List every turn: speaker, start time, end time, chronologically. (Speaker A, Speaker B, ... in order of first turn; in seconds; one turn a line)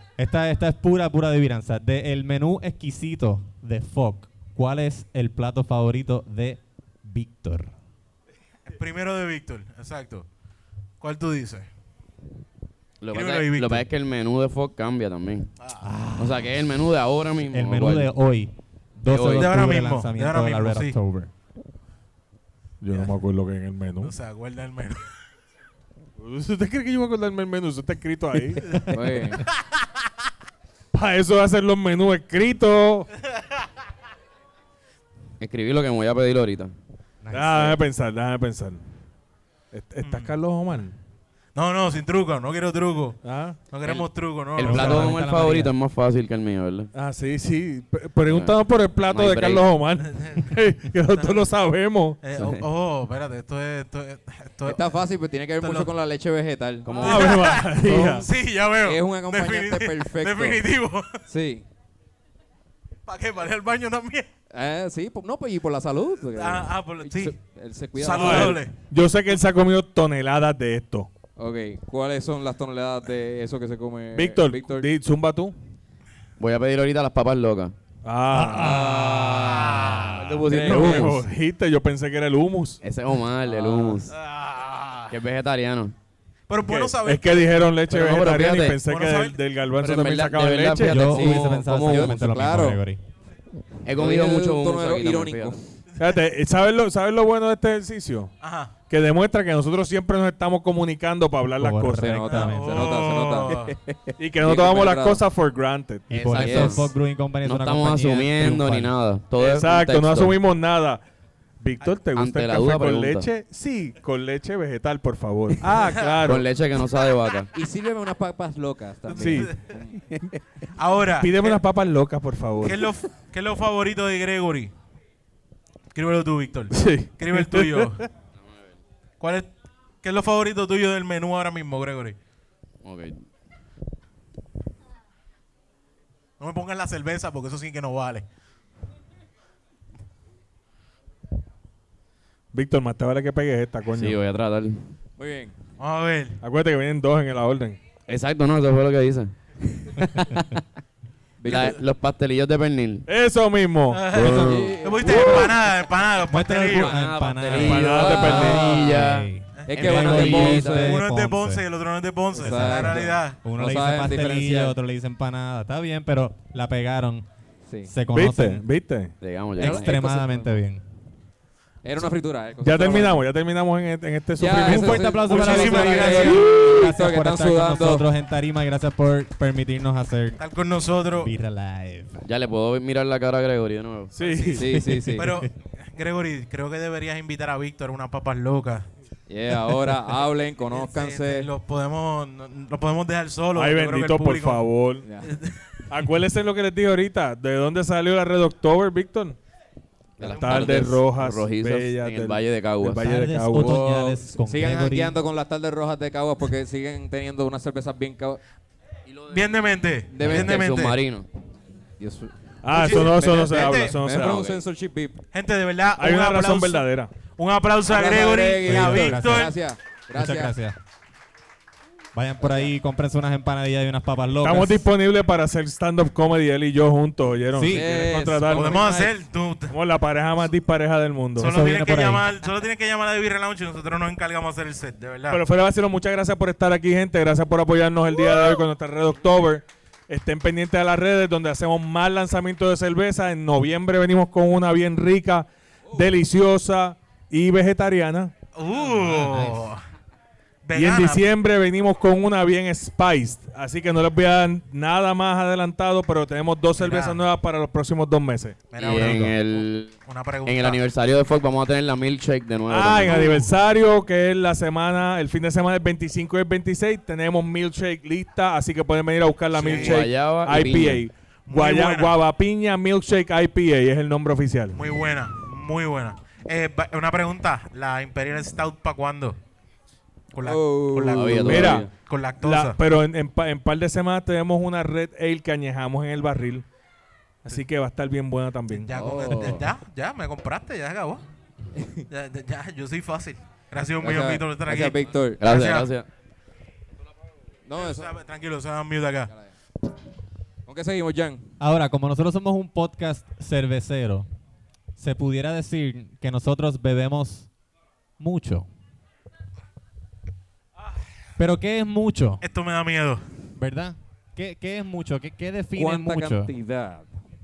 Speaker A: 0.2-7.7
Speaker B: 8.7-10.2
Speaker B: 11.0-11.7
Speaker C: 13.0-15.5
Speaker B: 13.1-13.8
Speaker A: 15.8-16.7
Speaker C: 16.2-18.1
Speaker A: 17.5-21.3
Speaker C: 19.1-19.5
Speaker B: 19.3-20.9
Speaker D: 22.8-24.1
Speaker B: 24.0-25.1
Speaker D: 26.2-28.9
Speaker E: 28.9-29.4
Speaker D: 30.9-33.1
Speaker C: 35.4-36.7
Speaker A: 37.2-37.8
Speaker D: 37.3-38.8
Speaker D: 39.7-40.9
Speaker B: 40.0-40.3
Speaker B: 41.5-45.1
Speaker D: 43.2-43.6
Speaker C: 43.8-46.9
Speaker A: 44.6-45.7
Speaker D: 46.9-52.2
Speaker C: 48.3-49.6
Speaker B: 50.0-50.5
Speaker B: 51.1-51.5
Speaker B: 52.2-54.8
Speaker C: 52.4-52.6
Speaker E: 54.6-57.2
Speaker B: 55.6-55.9
Speaker C: 56.8-57.5
Speaker D: 57.0-58.2
Speaker B: 57.0-61.2
Speaker E: 57.8-58.2
Speaker E: 58.8-60.6
Speaker E: 61.3-61.6
Speaker B: 63.1-64.3
Speaker E: 64.5-68.6
Speaker B: 66.3-67.3
Speaker B: 67.9-68.8
Speaker D: 68.1-71.1
Speaker E: 71.4-74.9
Speaker D: 74.1-75.5
Speaker C: 76.4-77.7
Speaker D: 78.0-78.9
Speaker A: 78.3-80.0
Speaker E: 78.5-81.0
Speaker C: 80.0-81.2
Speaker D: 80.4-82.8
Speaker C: 82.8-84.1
Speaker E: 83.5-84.1
Speaker B: 84.1-85.1
Speaker C: 85.1-85.9
Speaker B: 86.5-87.7
Speaker D: 86.6-91.1
Speaker C: 87.9-88.8
Speaker B: 88.8-89.4
Speaker C: 89.8-92.2
Speaker A: 90.8-93.0
Speaker E: 91.1-92.8
Speaker C: 93.8-95.6
Speaker E: 93.9-95.8
Speaker D: 96.0-98.3
Speaker B: 98.4-98.7
Speaker D: 98.9-102.2
Speaker A: 101.6-102.9
Speaker E: 102.0-105.2
Speaker B: 102.3-103.8
Speaker D: 104.2-106.1
Speaker A: 106.1-108.9
Speaker C: 106.1-106.9
Speaker E: 106.4-106.8
Speaker C: 107.4-110.4
Speaker D: 109.4-111.0
Speaker D: 111.6-116.5
Speaker C: 112.1-113.3
Speaker B: 115.8-116.2
Speaker C: 116.2-117.5
Speaker E: 117.5-120.0
Speaker D: 119.1-119.6
Speaker B: 119.2-119.6
Speaker B: 120.8-121.6
Speaker D: 121.2-122.8
Speaker B: 122.6-124.7
Speaker B: 125.9-128.1
Speaker D: 126.7-128.1
Speaker C: 128.4-128.8
Speaker B: 129.2-129.5
Speaker B: 130.0-132.2
Speaker C: 132.8-133.2
Speaker B: 136.4-138.2
Speaker D: 142.5-144.2
Speaker C: 143.9-144.8
Speaker E: 145.2-145.5
Speaker B: 145.8-146.4
Speaker D: 146.4-147.8
Speaker C: 148.1-150.6
Speaker E: 151.4-151.8
Speaker C: 151.4-153.1
Speaker D: 153.1-154.5
Speaker B: 153.9-156.9
Speaker A: 154.2-154.6
Speaker C: 154.2-154.7
Speaker E: 154.3-155.5
Speaker A: 156.3-161.6
Speaker C: 156.7-160.9
Speaker D: 157.6-158.7
Speaker E: 157.6-158.9
Speaker B: 159.6-163.4
Speaker E: 159.7-160.9
Speaker E: 162.3-164.7
Speaker A: 162.4-167.2
Speaker E: 167.7-167.9
Speaker A: 167.8-168.6
Speaker D: 168.1-169.1
Speaker C: 169.2-169.9
Speaker A: 169.6-170.8
Speaker E: 169.6-170.6
Speaker E: 171.8-173.2
Speaker D: 172.6-175.3
Speaker E: 174.4-178.0
Speaker A: 174.6-180.4
Speaker B: 175.2-176.5
Speaker B: 180.4-181.3
Speaker A: 181.1-182.2
Speaker C: 182.2-184.1
Speaker D: 184.1-184.6
Speaker B: 184.2-188.9
Speaker E: 184.6-185.3
Speaker A: 184.7-185.5
Speaker E: 189.3-191.5
Speaker B: 190.7-194.7
Speaker D: 193.5-195.1
Speaker E: 195.0-195.3
Speaker B: 195.2-195.7
Speaker D: 195.9-199.4
Speaker C: 200.2-203.1
Speaker D: 200.2-204.1
Speaker B: 200.2-200.8
Speaker A: 203.0-205.2
Speaker E: 204.3-208.4
Speaker B: 209.3-211.0
Speaker E: 210.1-210.6
Speaker C: 210.2-211.3
Speaker E: 212.0-215.2
Speaker D: 212.6-214.5
Speaker B: 212.7-214.0
Speaker C: 214.2-214.6
Speaker B: 215.3-219.6
Speaker D: 216.0-217.1
Speaker E: 217.8-220.5
Speaker A: 218.6-219.6
Speaker A: 220.1-220.8
Speaker A: 222.1-224.8
Speaker E: 222.4-222.7
Speaker D: 224.4-228.9
Speaker A: 227.5-227.9
Speaker E: 227.7-229.1
Speaker B: 228.5-229.8
Speaker D: 229.7-231.5
Speaker B: 231.4-235.4
Speaker A: 231.4-232.2
Speaker D: 235.3-248.3
Speaker B: 248.5-249.8
Speaker A: 248.8-249.7
Speaker B: 250.6-251.2
Speaker D: 250.7-259.3
Speaker B: 256.8-257.2
Speaker B: 258.7-260.8
Speaker C: 258.8-259.9
Speaker C: 260.4-263.5
Speaker D: 262.7-274.8
Speaker B: 269.5-270.0
Speaker C: 269.6-271.0
Speaker B: 271.5-272.1
Speaker B: 274.7-279.4
Speaker B: 280.3-282.8
Speaker E: 280.4-281.7
Speaker C: 281.1-281.9
Speaker D: 281.4-281.9
Speaker D: 282.4-286.6
Speaker D: 287.4-288.9
Speaker B: 288.7-291.2
Speaker E: 288.9-289.7
Speaker E: 291.8-292.0
Speaker B: 292.1-295.9
Speaker E: 294.0-295.4
Speaker C: 295.4-296.1
Speaker E: 297.6-298.2
Speaker B: 297.8-299.3
Speaker E: 300.6-301.5
Speaker A: 301.6-304.3
Speaker A: 305.0-307.5
Speaker A: 308.2-308.7
Speaker A: 311.4-312.4
Speaker B: 312.4-313.2
Speaker A: 313.6-316.5
Speaker E: 315.8-317.1